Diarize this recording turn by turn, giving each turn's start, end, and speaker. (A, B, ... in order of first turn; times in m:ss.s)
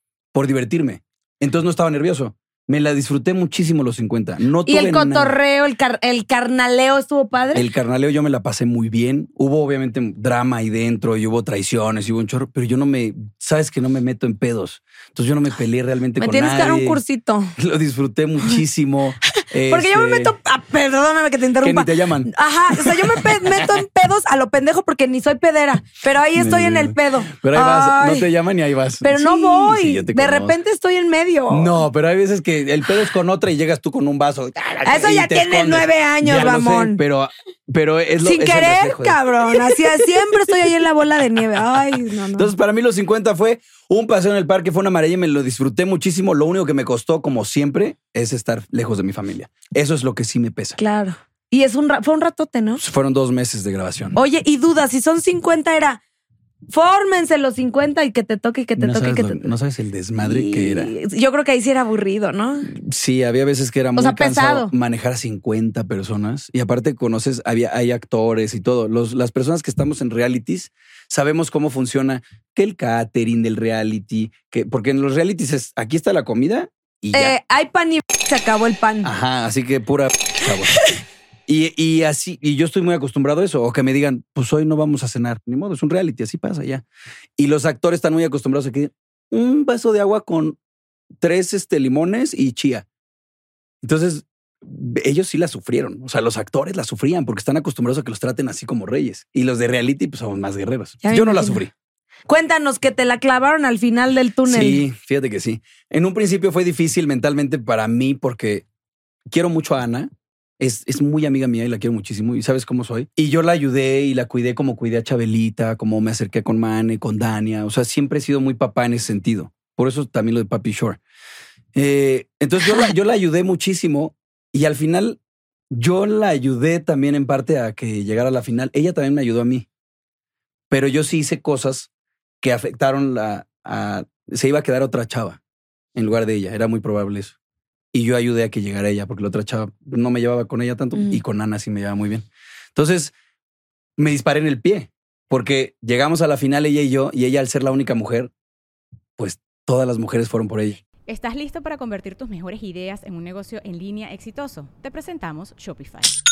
0:00.3-0:05.4 A
0:04.7-0:07.6 B
0:07.5-0:17.0 A
0:16.2-0:17.5 B
0:17.6-0:20.4 A
0:19.7-0:28.3 B
0:21.6-0:23.8 A
0:26.3-0:30.6 A
0:29.0-0:31.8 B
0:31.5-0:40.6 A
0:34.8-0:37.0 B
0:38.2-0:42.5 B
0:42.3-0:50.8 A
0:50.8-0:52.8 B
0:52.8-0:54.2 A
0:54.1-0:56.0 B
0:56.7-0:59.4 B
0:58.8-1:00.9 A
1:00.2-1:02.7 B
1:02.7-1:17.4 A
1:04.0-1:04.7 B
1:17.1-1:19.1 B
1:19.0-1:20.8 A
1:21.5-1:26.8 A
1:27.4-1:30.6 A
1:31.2-1:32.8 A
1:33.8-1:41.7 A
1:41.0-1:41.6 B
1:42.3-1:44.8 B
1:44.4-1:48.6 A
1:49.3-2:01.0 A
2:01.7-2:05.2 A
2:05.7-2:09.7 A
2:10.7-2:11.9 A
2:12.4-2:15.4 A
2:15.9-2:17.3 A
2:17.9-2:23.1 A
2:24.0-2:28.3 A
2:29.2-2:30.8 A
2:31.1-2:36.1 C